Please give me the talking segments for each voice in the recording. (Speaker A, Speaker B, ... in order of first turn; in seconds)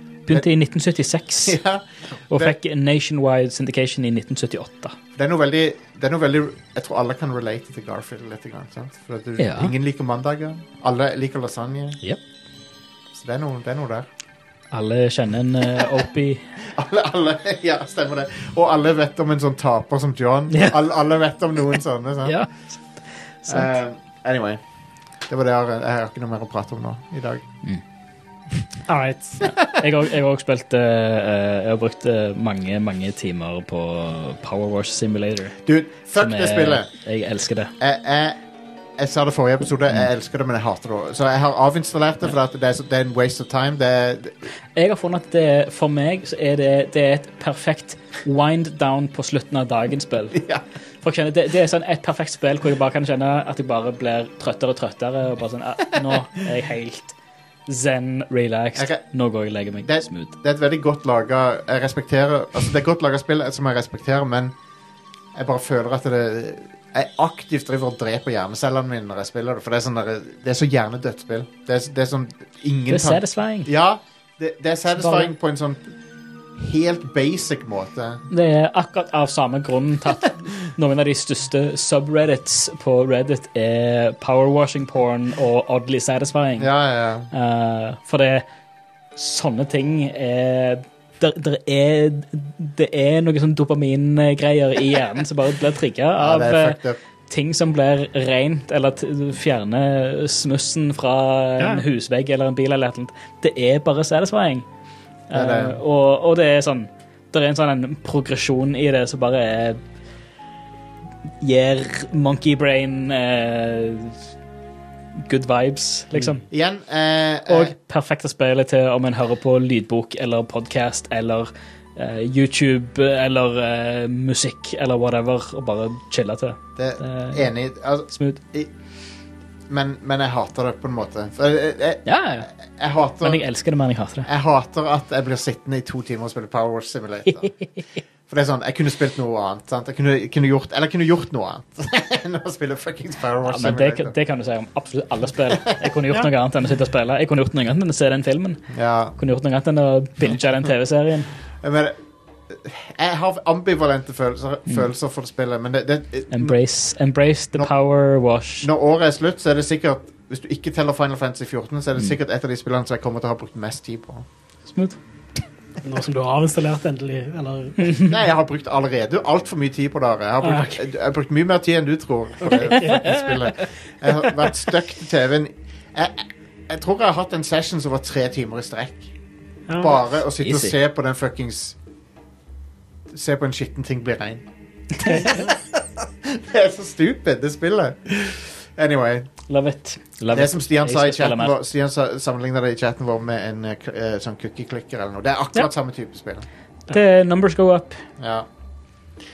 Speaker A: 0.3-1.6, 2.3-5.0, 9.4-9.7, 14.7-16.4, 22.3-23.7, 29.4-37.7, 44.8-50.5, 51.0-57.2, 57.7-60.3, 72.9-73.7, 75.0-75.3, 78.3-86.7, 87.3-88.4, 89.2-104.7, 105.3-109.8, 111.4-114.2, 115.2-116.5, 117.5-127.5, 128.1-128.4, 132.1-132.5, 133.2-134.3, 143.4-148.6, 149.2-151.3, 156.3-158.7, 164.7-165.0, 167.8-168.1, 172.9-173.1, 180.4-180.7, 189.5-191.5, 196.9-198.0
Speaker B: 1.4-2.5, 5.2-12.0, 13.1-14.1, 16.6-22.4, 23.5-24.6, 25.3-27.4, 35.6-36.9, 37.8-38.4, 39.0-44.4, 50.3-50.6, 58.7-59.0, 59.8-64.5, 65.3-76.0, 76.6-78.3, 86.6-87.3, 96.2-97.0, 105.3-105.8, 116.5-117.7, 126.8-128.7, 129.7-132.1, 132.8-133.4, 134.2-137.5, 138.3-144.2, 148.7-149.2, 151.6-152.0, 152.5-156.6, 158.6-164.3, 168.0-179.1, 179.8-181.8, 183.1-184.4, 185.0-189.3, 190.3-196.4, 198.2-198.4
Speaker C: 28.9-29.5, 101.6-101.8, 165.8-167.9, 170.4-170.8, 172.4-173.1, 179.7-180.0, 185.0-185.5